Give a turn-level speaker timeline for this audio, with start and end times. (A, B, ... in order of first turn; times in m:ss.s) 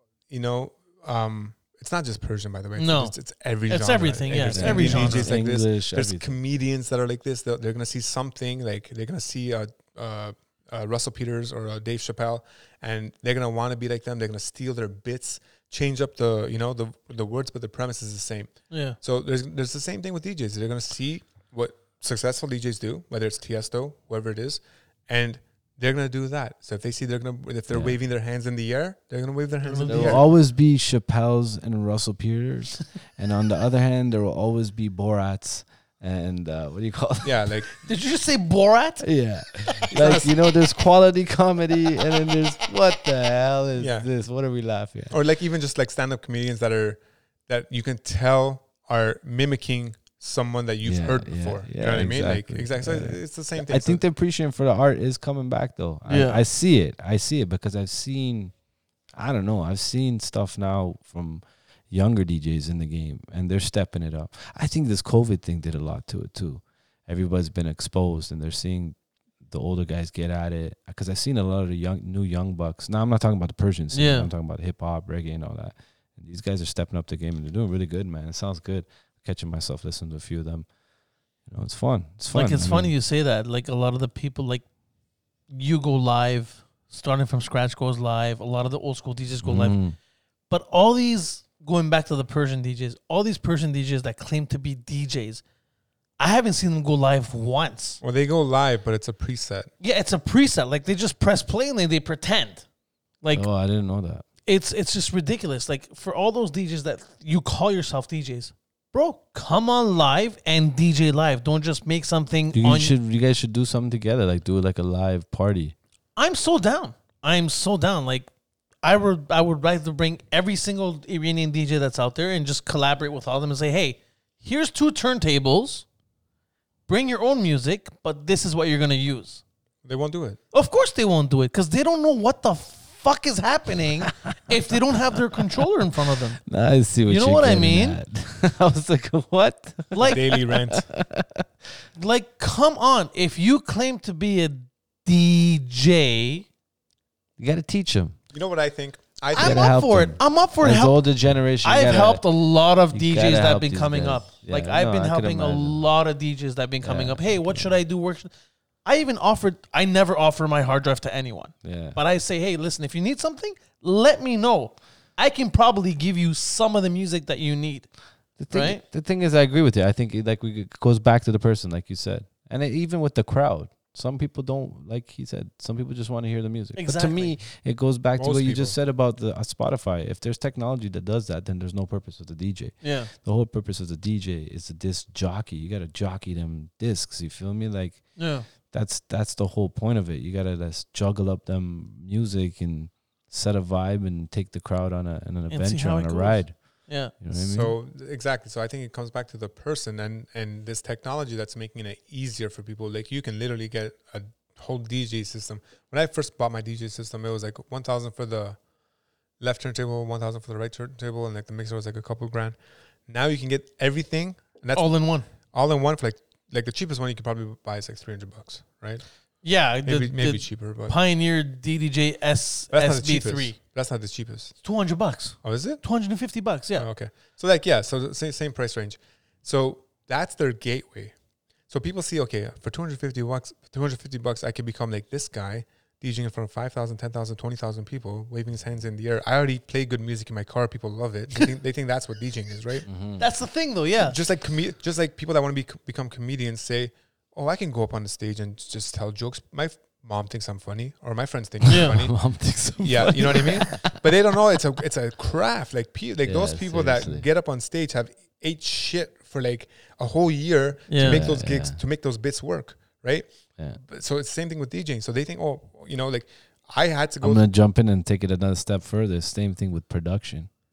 0:00.3-0:30.2 A
0:02.8-0:03.2 B
0:03.7-0:05.3 B
0:04.4-0:06.3 C
0:18.7-0:19.0 B
0:27.7-0:28.0 C
0:29.6-0:30.2 B
0:29.9-0:37.5 C
0:37.2-0:37.8 A
0:37.8-0:39.0 B
0:39.0-0:45.2 C
0:39.9-0:40.3 A
0:43.8-0:44.1 A
0:45.1-0:54.0 A
0:50.8-0:58.5 C
0:56.1-0:56.4 B
0:59.2-1:20.7 C
1:13.9-1:14.3 B
1:21.5-1:22.9 C
1:22.3-1:24.6 B
1:25.5-1:29.8 B
1:29.4-1:30.0 C
1:30.5-1:35.4 B
1:36.2-1:38.0 B
1:38.0-1:39.7 A
1:39.8-1:42.7 B
1:43.3-1:44.2 C
1:44.5-1:52.9 B
1:52.5-1:55.8 C
1:56.2-1:58.3 B
1:58.8-2:05.9 B
2:06.9-2:09.4 B
2:09.8-2:10.4 A
2:10.5-2:16.4 B
2:16.4-2:21.4 C
2:17.1-2:18.0 B
2:19.9-2:20.2 B
2:20.0-2:20.9 A
2:22.0-2:26.5 B
2:27.4-2:28.2 C
2:28.3-2:29.8 A
2:29.3-2:32.3 C
2:29.4-2:31.0 B
2:31.6-2:38.3 B
2:32.9-2:35.8 C
2:36.8-2:37.8 C
2:38.8-2:47.9 B
2:41.6-2:42.0 C
2:48.4-3:17.8 C
2:48.5-2:48.8 B
2:56.8-2:57.3 B
2:58.2-2:58.8 A
3:02.8-3:03.1 B
3:08.2-3:08.5 B
3:15.5-3:17.1 B
3:17.3-3:28.6 A
3:29.4-3:32.6 A
3:33.1-3:39.0 A
3:34.8-3:35.3 B
3:39.4-3:43.6 B
3:39.8-3:41.0 A
3:42.7-3:44.6 A
3:44.6-3:46.9 B
3:45.4-3:45.8 A
3:46.8-3:51.1 A
3:51.7-4:02.9 A
4:02.9-4:03.2 C
4:03.2-4:04.2 B
4:04.0-4:27.5 A
4:11.6-4:14.1 C
4:11.7-4:12.0 B
4:16.2-4:17.3 C
4:20.9-4:21.2 B
4:21.0-4:21.8 C
4:27.2-4:30.5 C